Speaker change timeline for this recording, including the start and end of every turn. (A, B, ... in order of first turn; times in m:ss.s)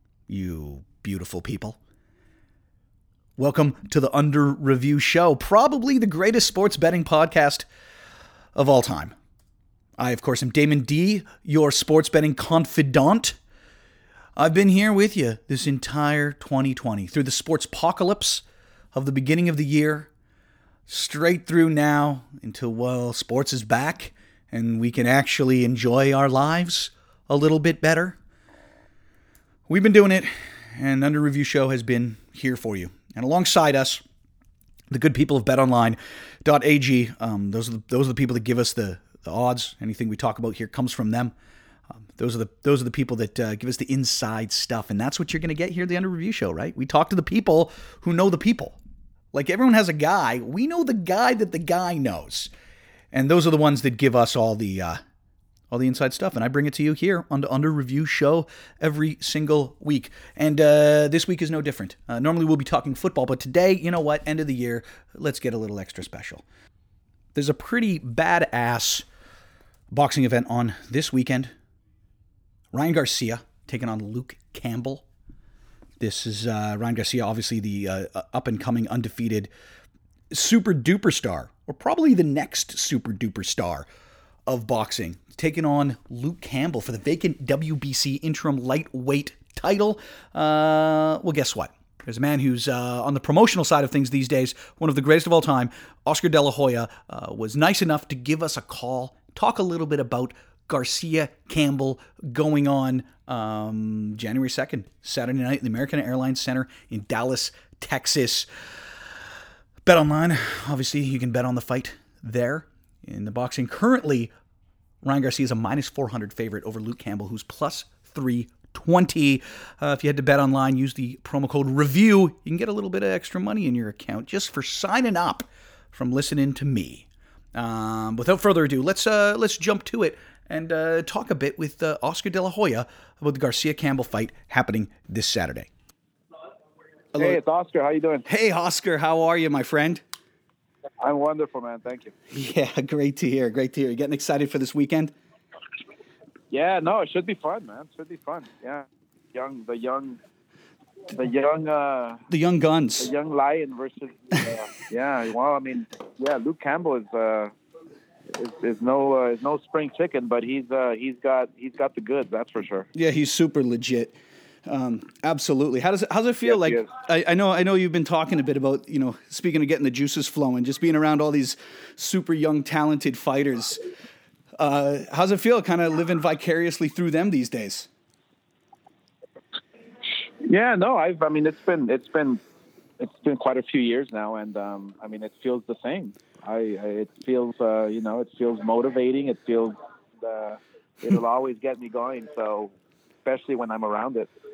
0:00.3-0:01.8 A
0:03.4-0:07.6 A
0:08.5-0:09.1 A
0:10.0-0:13.4 A
0:14.4-0:20.1 A
0:20.9-0:28.2 A
0:29.7-0:34.0 A
0:34.9-0:41.3 A
0:42.0-0:48.8 A
0:49.3-0:52.5 A
0:53.1-0:55.0 A
0:55.7-1:06.4 A
1:07.3-1:09.0 A
1:09.9-1:11.5 A
1:12.7-1:15.0 A
1:16.0-1:19.5 A
1:20.3-1:23.8 A
1:24.5-1:48.4 A
1:49.8-1:54.3 A
1:55.0-2:15.7 A
2:17.2-2:18.2 B
2:18.2-2:20.0 A
2:21.0-2:22.1 B
2:22.3-2:25.1 A
2:26.5-2:30.2 B
2:31.1-2:32.2 B
2:32.3-2:33.1 A
2:33.0-2:37.5 B
2:38.3-2:42.9 B
2:42.9-2:44.1 A
2:44.6-2:53.8 A
2:46.4-2:46.8 B
2:54.6-2:57.9 A
3:00.1-3:02.4 B
3:03.0-3:14.3 B